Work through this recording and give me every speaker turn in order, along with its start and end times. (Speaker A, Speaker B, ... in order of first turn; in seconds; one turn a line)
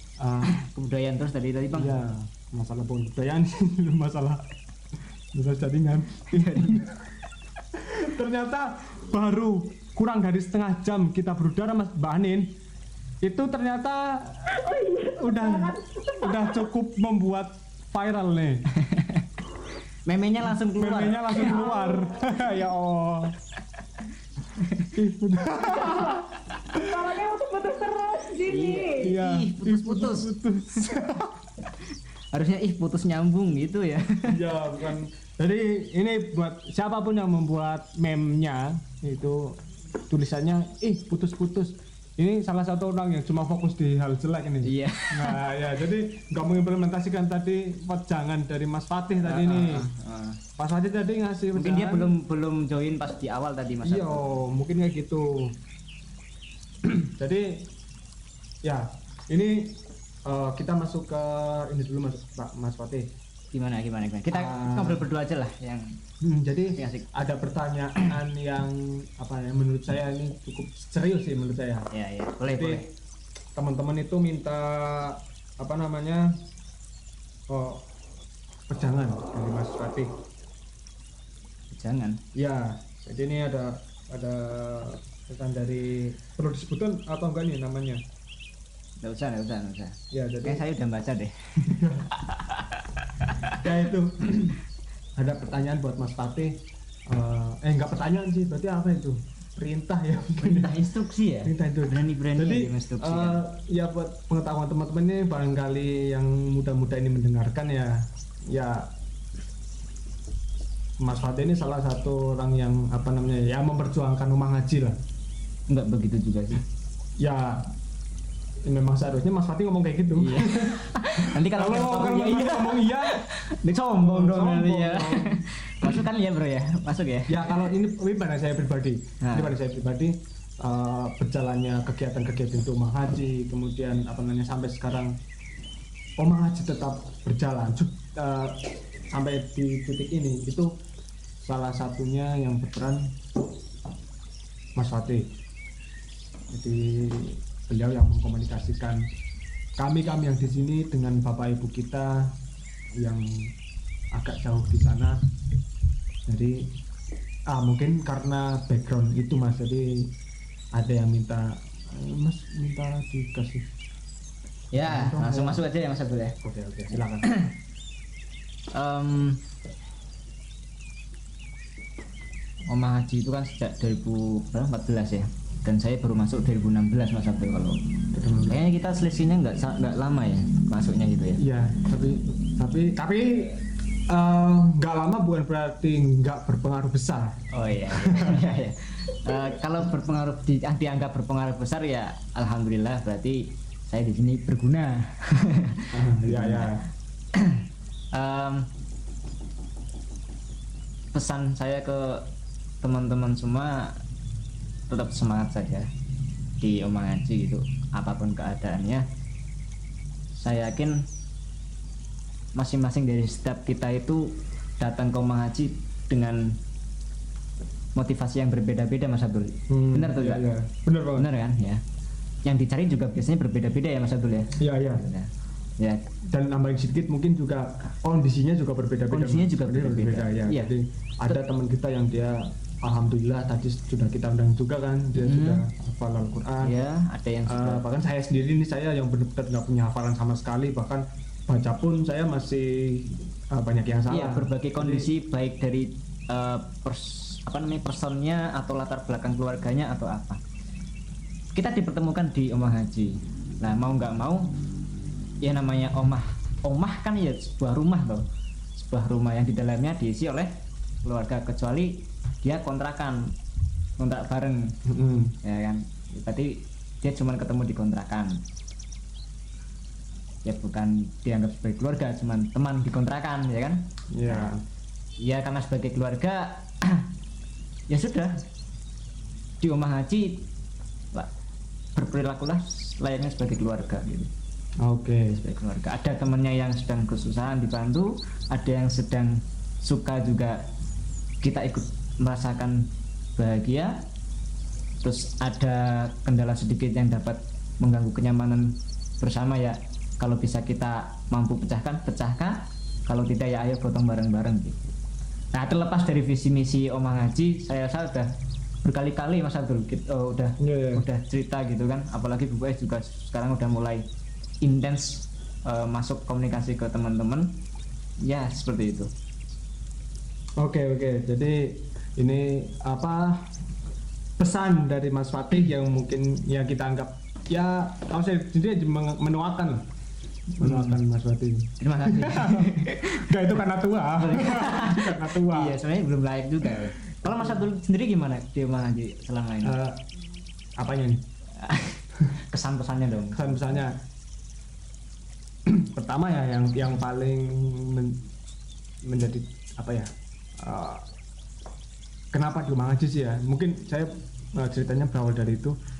Speaker A: 0.2-0.5
Speaker B: 0.4-1.9
Speaker A: 1.7-4.4
Speaker A: 5.3-7.0
Speaker B: 6.3-6.9
Speaker A: 7.7-12.5
Speaker A: 13.2-18.6
Speaker C: 14.5-16.6
Speaker B: 18.8-19.2
Speaker B: 20.1-21.6
Speaker A: 20.8-23.3
Speaker C: 21.4-22.3
Speaker B: 24.5-24.9
Speaker A: 24.9-26.8
Speaker C: 25.8-26.1
Speaker C: 26.7-29.1
Speaker B: 28.5-30.3
Speaker A: 29.0-31.4
Speaker B: 32.3-34.4
Speaker A: 34.3-39.6
Speaker A: 40.1-49.9
Speaker B: 44.6-45.5
Speaker B: 49.2-50.4
Speaker A: 50.6-52.1
Speaker B: 51.5-54.4
Speaker A: 53.8-55.5
Speaker A: 56.8-57.7
Speaker A: 58.6-63.1
Speaker B: 63.5-66.0
Speaker A: 64.3-65.0
Speaker A: 66.2-71.9
Speaker B: 66.8-67.1
Speaker B: 71.9-72.9
Speaker A: 72.4-72.8
Speaker A: 73.5-76.3
Speaker A: 77.5-77.8
Speaker A: 78.7-80.1
Speaker B: 81.7-82.2
Speaker A: 82.3-88.0
Speaker B: 89.0-93.6
Speaker A: 90.1-90.6
Speaker A: 91.6-92.1
Speaker A: 93.6-94.6
Speaker A: 95.2-96.5
Speaker A: 97.1-100.8
Speaker B: 100.4-103.4
Speaker A: 101.4-108.9
Speaker A: 111.0-115.0
Speaker B: 115.7-116.6
Speaker A: 117.2-117.7
Speaker A: 118.6-123.2
Speaker B: 120.1-127.6
Speaker A: 124.0-126.0
Speaker A: 127.3-135.1
Speaker B: 129.2-129.5
Speaker A: 136.2-140.7
Speaker A: 141.4-143.1
Speaker A: 144.8-145.3
Speaker A: 146.5-149.0
Speaker A: 149.8-152.3
Speaker A: 153.0-153.5
Speaker A: 154.1-155.2
Speaker A: 156.2-156.6
Speaker A: 157.5-160.1
Speaker A: 160.7-163.7
Speaker B: 164.7-166.4
Speaker A: 164.8-165.6
Speaker A: 166.4-167.3
Speaker B: 167.2-167.5
Speaker B: 168.7-169.4
Speaker B: 172.7-177.8
Speaker A: 178.1-178.6
Speaker B: 178.4-181.4
Speaker A: 181.4-188.5
Speaker B: 187.5-196.7
Speaker A: 195.9-196.8
Speaker B: 197.3-197.6
Speaker B: 198.1-198.7
Speaker B: 201.1-202.2
Speaker B: 202.8-203.9
Speaker B: 204.9-205.9
Speaker B: 206.6-209.1
Speaker B: 210.4-211.0
Speaker B: 212.6-216.5
Speaker B: 217.9-220.4
Speaker A: 219.7-221.3
Speaker B: 221.2-221.8
Speaker B: 222.4-226.0
Speaker A: 224.6-225.1
Speaker A: 226.3-236.8
Speaker B: 229.1-230.7
Speaker B: 235.2-235.6
Speaker B: 236.6-237.8
Speaker A: 237.4-245.1
Speaker B: 244.1-250.4
Speaker B: 251.5-254.5
Speaker B: 255.4-260.5
Speaker B: 261.0-263.3
Speaker B: 264.0-264.8
Speaker A: 264.9-265.3
Speaker B: 265.4-268.4
Speaker B: 270.4-274.5
Speaker A: 274.1-274.6
Speaker B: 275.2-277.1
Speaker B: 277.9-278.4
Speaker B: 279.6-280.5
Speaker B: 281.9-284.3
Speaker A: 284.8-285.4
Speaker B: 285.3-290.6
Speaker B: 291.4-294.0
Speaker B: 295.0-304.8
Speaker B: 305.5-308.3
Speaker B: 308.8-314.0
Speaker A: 310.6-311.0
Speaker B: 314.6-317.5
Speaker B: 318.2-319.1
Speaker A: 320.6-323.5
Speaker A: 324.4-329.8
Speaker A: 330.6-335.8
Speaker B: 330.6-331.0
Speaker B: 331.8-333.4
Speaker B: 334.2-339.7
Speaker A: 337.3-337.6
Speaker A: 339.6-340.0
Speaker A: 340.8-341.2
Speaker B: 341.6-343.5
Speaker A: 343.3-343.9
Speaker A: 345.6-348.2
Speaker A: 349.0-351.1
Speaker A: 352.3-355.8